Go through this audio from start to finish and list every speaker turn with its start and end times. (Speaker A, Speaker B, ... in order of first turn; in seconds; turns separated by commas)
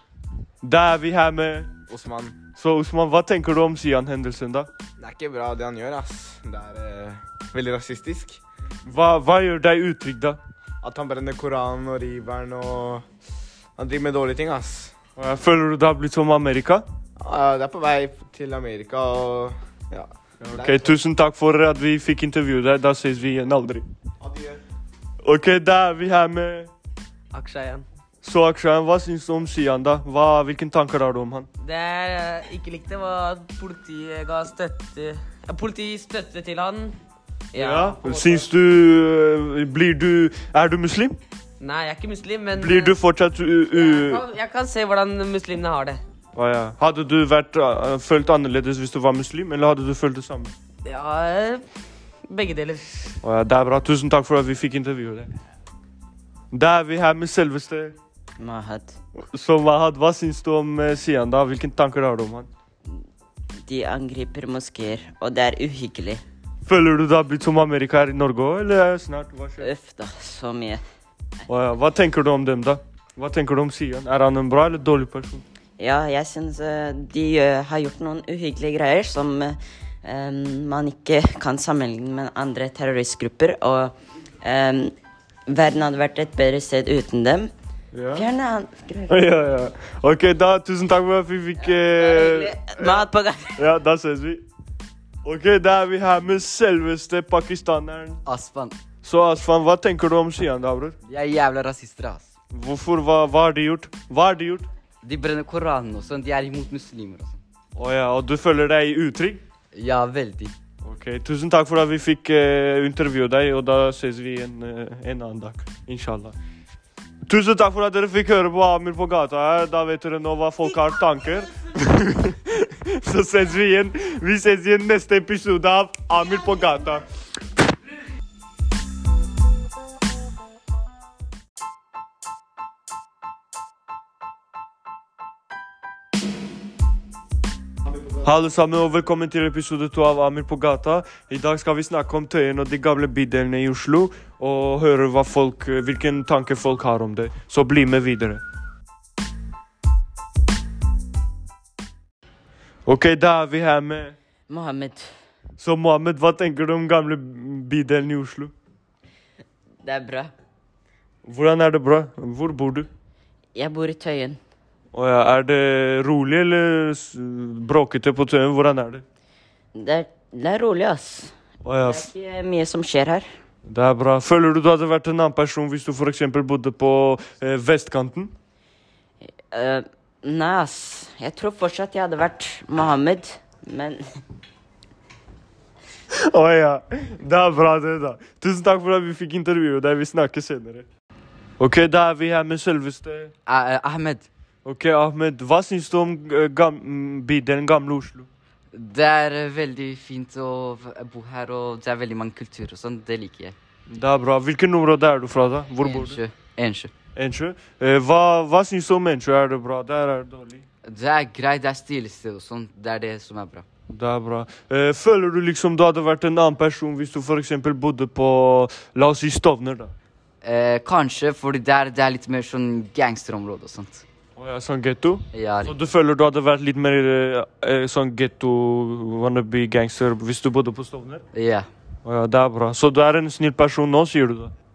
Speaker A: 0.6-1.7, Speaker B: 1.9-2.4, Speaker A: 2.5-4.7, Speaker B: 5.0-8.4, Speaker A: 8.8-10.4, Speaker B: 10.8-13.0, Speaker B: 13.8-14.9, Speaker A: 15.2-16.9, Speaker B: 17.2-21.0, Speaker A: 20.4-23.8, Speaker B: 24.2-24.6, Speaker A: 25.2-26.7, Speaker C: 27.3-27.9, Speaker A: 28.2-31.5, Speaker C: 31.6-37.0, Speaker C: 37.5-38.5, Speaker A: 37.5-41.2, Speaker C: 41.6-43.0, Speaker A: 42.5-44.2, Speaker C: 43.7-46.0, Speaker A: 46.3-50.5, Speaker C: 50.8-51.6, Speaker C: 52.3-53.2, Speaker A: 53.2-55.3, Speaker A: 56.5-58.0, Speaker D: 58.4-59.0, Speaker A: 59.2-62.5, Speaker D: 63.6-66.2, Speaker A: 66.7-69.7, Speaker D: 69.6-70.8, Speaker A: 71.5-75.4, Speaker D: 75.8-84.9, Speaker D: 85.5-87.5, Speaker A: 87.9-88.3, Speaker D: 88.1-89.2, Speaker A: 89.1-93.0, Speaker D: 91.7-93.5, Speaker A: 93.5-94.4, Speaker A: 95.2-98.2, Speaker E: 98.2-98.8, Speaker A: 99.0-101.0, Speaker E: 101.0-102.3, Speaker A: 102.5-104.7, Speaker E: 105.0-107.4, Speaker A: 107.8-109.4, Speaker E: 109.7-110.5, Speaker A: 110.8-116.3, Speaker A: 117.2-127.0, Speaker A: 138.2-148.4, Speaker A: 152.8-154.2, Speaker D: 154.5-155.1, Speaker A: 155.6-158.5, Speaker D: 159.8-160.3, Speaker A: 161.2-162.9, Speaker D: 163.5-164.4, Speaker A: 164.9-169.0, Speaker D: 169.7-173.3, Speaker A: 171.6-172.1, Speaker A: 173.7-178.3, Speaker D: 179.5-184.0, Speaker A: 186.1-190.9, Speaker A: 191.6-193.3, Speaker E: 193.5-194.3, Speaker A: 194.6-198.3, Speaker E: 198.7-203.6, Speaker A: 203.9-206.2, Speaker E: 205.8-206.9, Speaker A: 207.1-210.7, Speaker E: 210.8-213.7, Speaker A: 213.9-219.9, Speaker E: 220.4-224.0, Speaker A: 224.3-231.2, Speaker E: 225.3-225.8, Speaker E: 231.3-231.7, Speaker A: 232.0-234.5